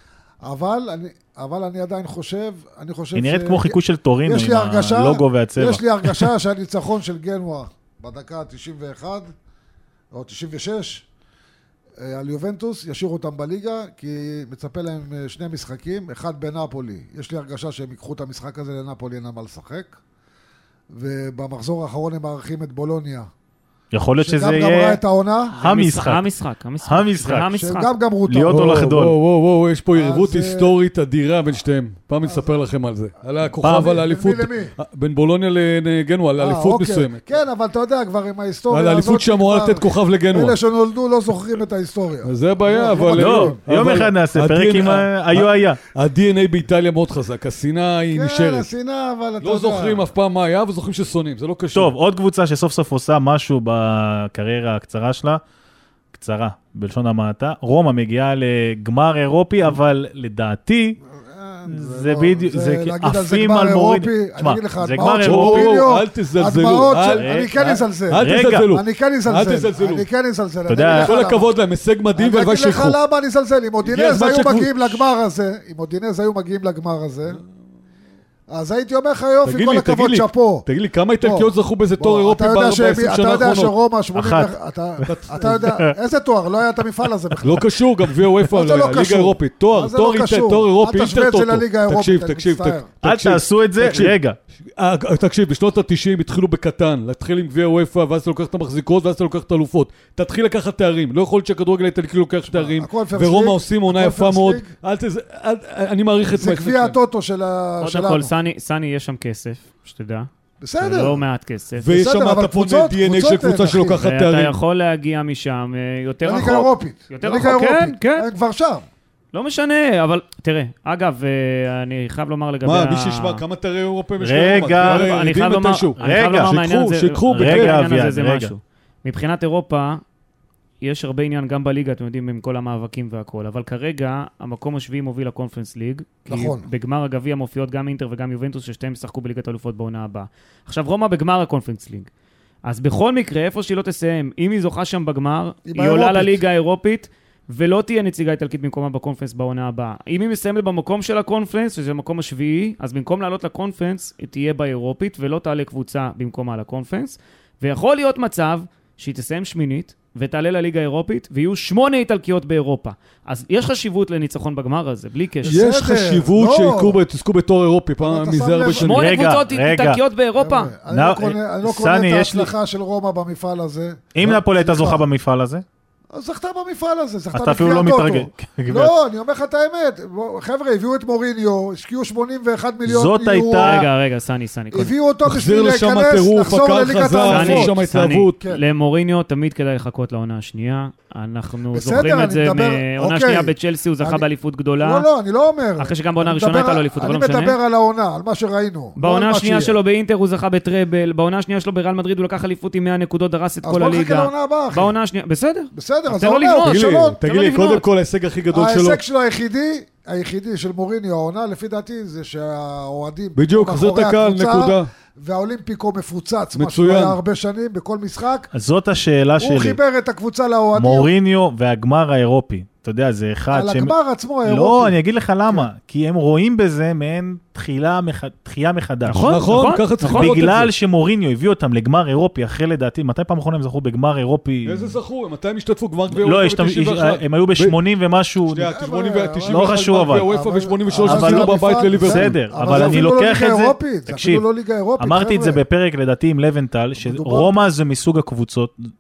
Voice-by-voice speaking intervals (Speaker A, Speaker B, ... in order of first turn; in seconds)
Speaker A: 0.4-9.3, 10.1-11.1, 12.0-20.0, 20.9-23.3, 24.2-25.6, 27.6-28.8, 29.9-30.7, 32.3-32.6, 33.6-34.7, 36.4-43.6, 48.1-50.0, 61.1-71.5, 72.2-77.4, 78.5-80.7, 81.2-87.7, 88.4-92.9, 102.5-104.7, 106.3-108.3, 110.6-111.2, 111.9-114.0, 116.2-118.8, 136.3-136.7, 145.7-146.4, 165.4-167.0, 168.0-169.0, 170.4-175.1, 176.1-183.9, 184.7-187.8, 191.7-194.3, 194.8-199.8, 203.6-204.9, 205.7-207.2, 208.5-218.5, 219.4-221.1, 223.5-225.0, 238.7-245.6, 247.0-247.5
Speaker B: 3.1-6.3, 23.9-25.0, 25.6-26.2, 26.8-27.5, 28.3-29.1, 33.6-33.9, 43.1-45.8, 51.7-55.4, 56.1-61.0, 61.7-65.8, 67.1-67.5, 68.2-68.7, 70.7-71.2, 84.2-84.5, 85.7-85.9, 93.0-94.4, 124.2-125.1, 126.0-126.6, 127.3-128.5, 168.9-170.0, 170.9-172.5, 174.2-175.7, 177.3-178.9, 182.8-183.9, 218.5-219.8, 220.8-223.9, 224.4-229.4, 230.0-235.0, 236.1-238.7, 239.5-240.3, 241.0-244.4, 245.0-248.8
Speaker C: 25.6-27.9, 107.8-110.3, 110.8-111.9, 114.0-118.3, 119.3-123.4, 124.8-130.0, 130.8-142.1, 142.7-165.7, 168.8-170.7, 183.5-184.9, 187.3-195.1, 195.8-197.6, 199.0-207.8, 229.1-230.4
Speaker D: 28.5-37.2, 38.7-40.6, 42.2-48.7, 49.4-51.9, 65.0-70.1, 70.8-73.0, 73.8-75.0, 79.4-83.7, 85.0-85.7, 87.4-94.2, 94.8-107.0, 111.8-114.5, 122.7-127.8, 165.4-169.1, 185.2-188.4, 206.6-209.0, 213.4-214.9, 216.6-217.2, 229.2-230.7, 234.7-237.8, 238.5-243.0